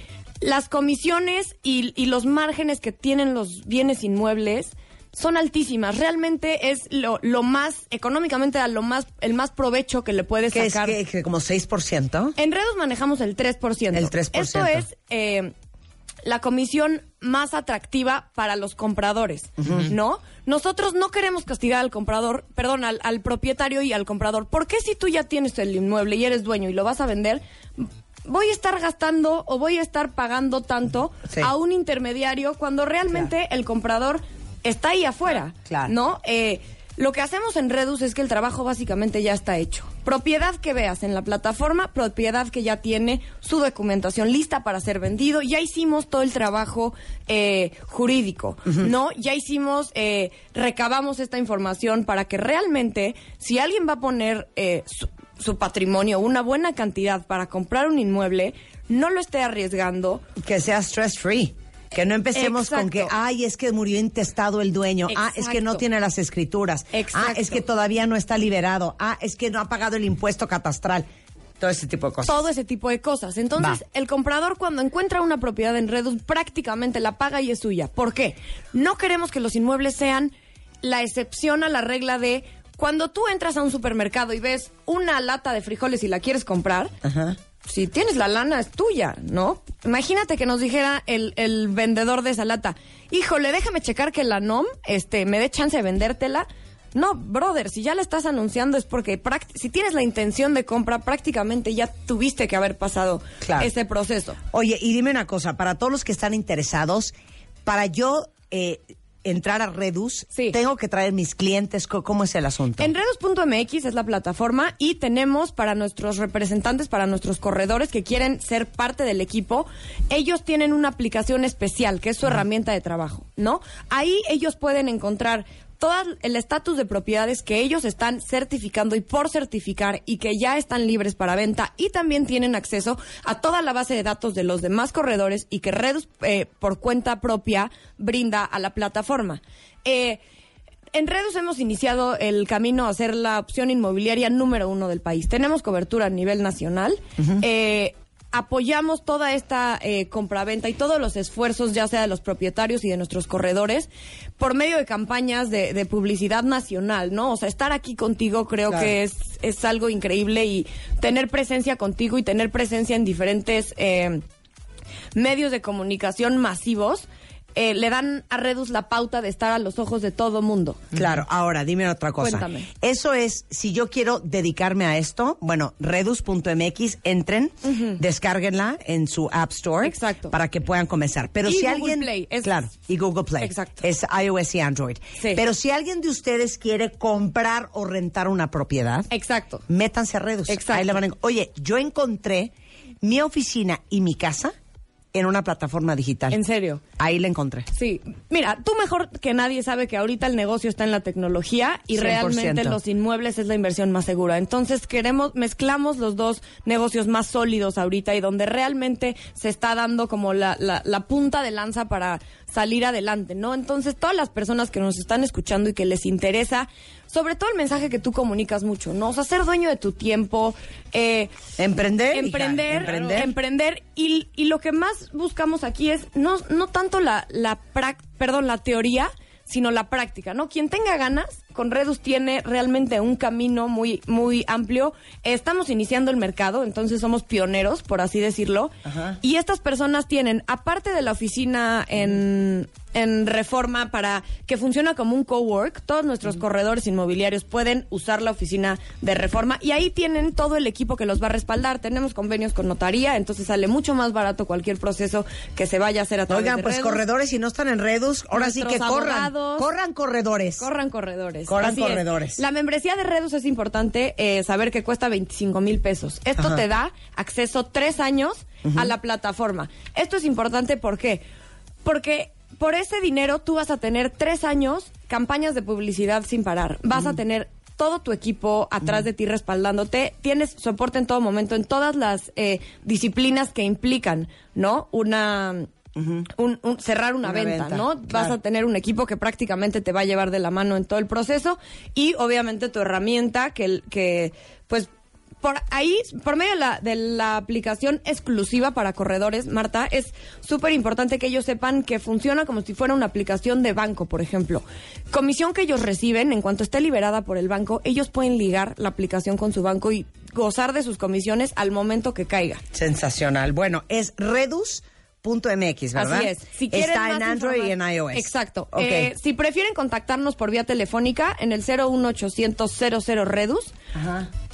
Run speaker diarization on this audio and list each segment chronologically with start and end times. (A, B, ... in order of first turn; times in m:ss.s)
0:00.4-0:11.0 A
0:10.5-0:12.4 B
0:12.4-0:15.5 A
0:13.9-0:14.9 B
0:16.2-1:00.2 A
0:19.6-0:19.9 B
0:35.7-0:35.9 B
1:00.4-1:11.1 B
1:02.4-1:03.1 A
1:05.1-1:05.8 A
1:06.9-1:07.6 A
1:11.6-1:12.4 B
1:12.3-1:26.9 A
1:27.0-1:27.4 B
1:27.6-1:44.4 A
1:43.4-1:43.7 B
1:44.5-1:47.1 B
1:47.6-1:52.9 B
1:52.8-2:20.2 A
2:20.9-2:44.2 A
2:38.7-2:38.9 B
2:45.2-2:50.9 A
2:50.9-3:09.1 B
2:52.2-2:52.7 A
2:57.7-2:58.0 A
2:59.8-3:00.4 A
3:01.4-3:02.6 A
3:03.4-3:03.9 A
3:05.2-3:05.4 A
3:09.1-3:09.6 A
3:09.7-3:14.6 B
3:10.5-3:11.0 A
3:15.1-3:16.4 B
3:16.3-3:16.8 A
3:17.0-3:17.7 B
3:17.8-3:41.3 A
3:21.9-3:22.8 B
3:41.6-3:43.3 B
3:42.1-4:17.0 A
3:58.8-3:59.2 B
4:16.3-4:20.7 B
4:18.3-4:19.7 A
4:20.6-4:31.2 A
4:21.5-4:22.4 B
4:26.4-4:26.6 B
4:28.6-4:28.9 B
4:31.8-4:45.7 A
4:46.0-4:46.3 B
4:46.4-4:54.9 A
4:47.2-4:48.4 B
4:55.4-5:12.6 A
5:12.7-5:19.1 B
5:16.0-5:23.7 A
5:23.9-5:24.3 B